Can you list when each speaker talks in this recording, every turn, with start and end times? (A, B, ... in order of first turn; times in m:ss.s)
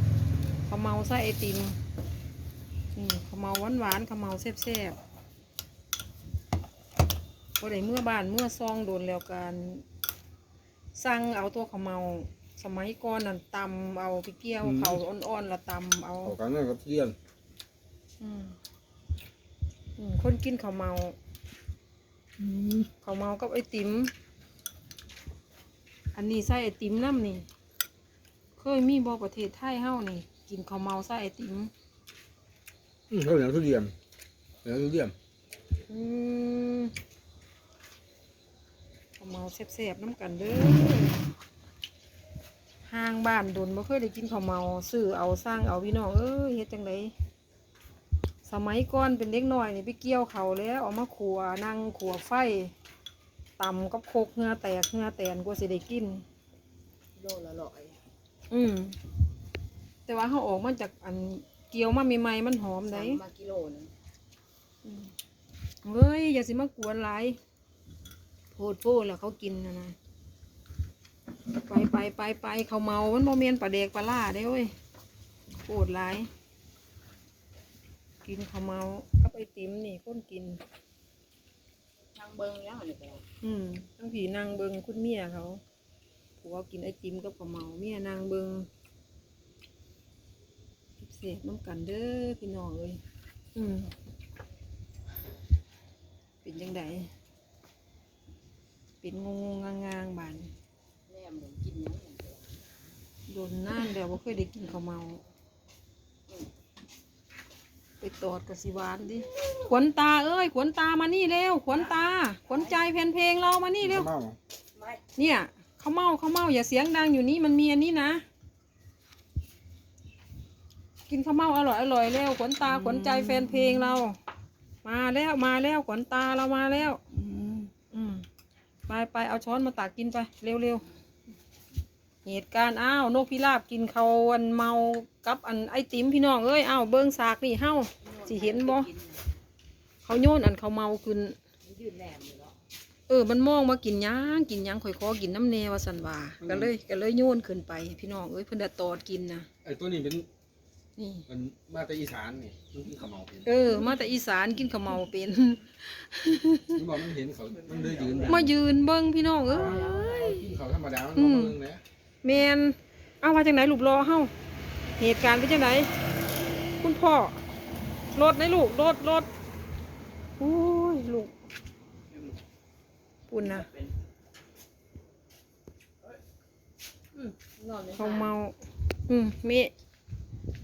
0:00.7-0:01.8 A
0:02.9-0:05.0 A
0:07.6-0:09.8 A
0:11.0-0:16.4 A
0:14.6-0:15.0 B
0:16.2-0:17.2 B
0:18.2-0:18.6 A
0:20.0-0:21.2 A
0:22.4-0:22.9 B
0:22.9-0:24.1 A
0:26.1-0:27.4 A
0:28.6-0:31.7 A
0:33.1-0:33.9 B
0:34.6-0:35.1 B
0:35.9-0:36.9 A
0:39.2-0:41.2 A
0:42.9-0:47.1 A
0:48.4-0:52.7 A
0:53.6-0:56.2 A
0:57.2-0:58.0 C
0:58.5-0:59.0 A
1:00.1-1:03.2 A
1:02.8-1:03.9 C
1:04.8-1:05.1 A
1:05.8-1:07.4 A
1:08.5-1:10.0 A
1:11.6-1:14.7 A
1:15.6-1:16.3 A
1:18.2-1:20.6 A
1:22.1-1:23.2 C
1:23.4-1:25.6 A
1:26.4-1:28.7 A
1:31.0-1:33.0 A
1:33.5-1:33.9 A
1:36.4-1:37.1 A
1:39.0-1:40.5 A
1:41.1-1:42.6 C
1:43.3-1:45.2 A
1:48.0-1:54.1 A
1:52.5-1:52.7 C
1:53.8-1:54.4 B
1:55.2-1:58.2 A
2:01.1-2:04.2 A
2:04.8-2:07.0 A
2:07.9-2:08.2 A
2:08.9-2:10.8 A
2:12.2-2:18.9 A
2:18.0-2:19.2 C
2:20.0-2:21.4 A
2:21.6-2:22.6 C
2:23.1-2:29.5 A
2:26.4-2:26.7 B
2:29.6-2:30.3 B
2:31.0-2:31.3 A
2:31.3-2:33.5 B
2:33.4-2:36.8 A
2:36.7-2:38.4 B
2:37.7-2:38.2 C
2:38.2-2:40.4 A
2:39.5-2:41.8 B
2:39.6-2:40.2 C
2:41.1-2:41.6 A
2:42.2-2:44.3 A
2:45.0-2:45.9 A
2:46.8-2:47.4 A
2:48.1-2:49.3 A
2:50.4-2:51.3 A
2:53.3-2:53.7 A
2:57.1-2:58.3 C
2:58.0-2:58.5 A
2:59.1-2:59.7 A